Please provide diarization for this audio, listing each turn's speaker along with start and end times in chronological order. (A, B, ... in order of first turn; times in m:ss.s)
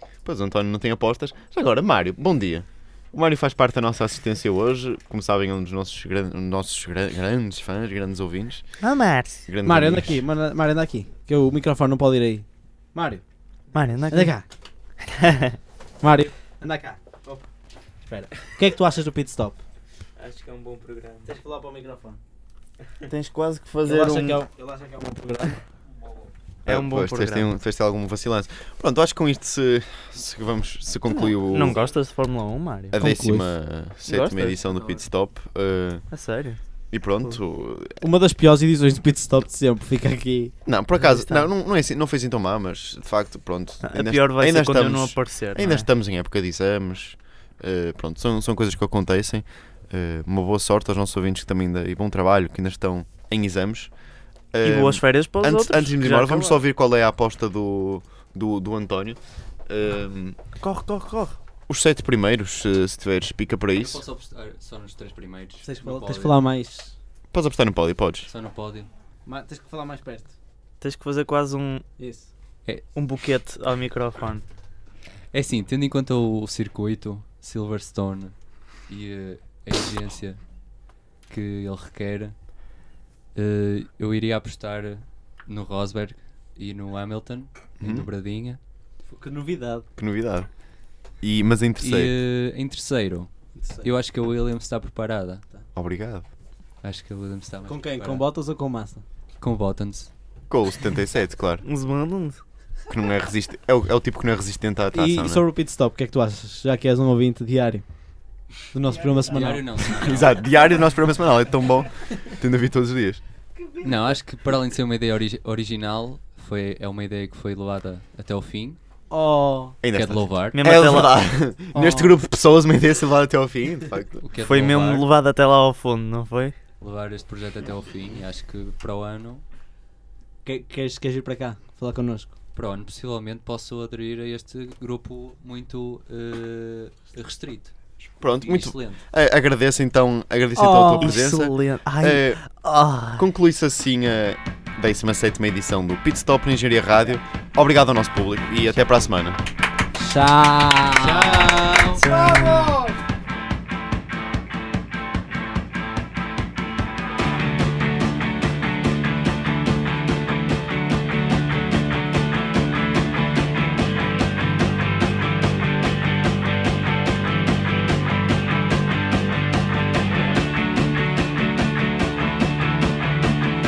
0:00.2-0:08.8 A
0:08.8-0:09.4 B
0:09.4-0:10.2 A
0:09.6-0:13.2 C
0:13.7-0:14.3 B
0:14.1-0:14.4 C
0:15.0-0:15.6 B
0:16.0-0:17.5 C
0:18.1-0:19.6 C
0:20.2-0:21.3 B
0:21.2-0:22.2 C
0:23.0-0:24.4 B
0:23.8-0:25.6 C
0:26.6-0:31.8 A
0:26.6-0:27.5 B
0:31.0-0:33.0 B
0:32.9-0:36.1 A
0:33.0-0:33.5 C
0:34.1-0:34.6 B
0:34.7-0:35.0 D
0:36.1-0:36.6 B
0:36.9-0:38.0 A
0:38.0-0:40.5 C
0:40.6-0:53.9 A
0:40.9-0:41.5 B
0:43.8-0:45.9 B
0:54.5-1:00.4 A
0:54.6-0:56.6 B
1:00.6-1:01.4 B
1:01.7-1:04.0 A
1:03.8-1:06.4 D
1:05.6-1:06.9 C
1:07.3-1:08.3 A
1:08.2-1:08.9 D
1:09.2-1:10.3 C
1:10.8-1:11.8 B
1:12.0-1:12.3 C
1:12.9-1:14.4 B
1:15.3-1:18.3 D
1:18.9-1:20.4 D
1:21.3-1:22.5 D
1:23.3-1:28.6 D
1:27.8-1:28.1 A
1:29.1-1:29.8 C
1:30.0-1:30.6 A
1:31.2-1:32.1 A
1:31.8-1:33.3 D
1:33.6-1:33.9 C
1:33.8-1:35.4 D
1:35.7-1:36.2 A
1:36.8-1:38.3 D
1:37.6-1:39.0 C
1:39.4-1:40.1 D
1:40.5-1:41.6 A
1:41.6-1:42.4 B
1:42.9-1:45.4 A
1:44.9-1:47.8 C
1:48.7-1:49.8 C
1:49.2-1:50.4 D
1:49.9-1:53.2 A
1:53.8-1:58.8 D
1:59.1-1:59.8 C
1:59.8-2:04.2 A
1:59.9-2:00.6 D
2:00.5-2:01.2 B
2:01.7-2:02.2 C
2:04.2-2:05.1 D
2:04.4-2:06.5 B
2:06.8-2:09.4 D
2:10.4-2:12.3 C
2:12.5-2:17.7 D
2:18.2-2:22.4 A
2:18.4-2:19.0 D
2:20.6-2:21.1 C
2:21.0-2:23.2 B
2:23.2-2:29.4 A
2:30.0-2:32.9 C
2:31.0-2:32.0 D
2:32.0-2:32.8 B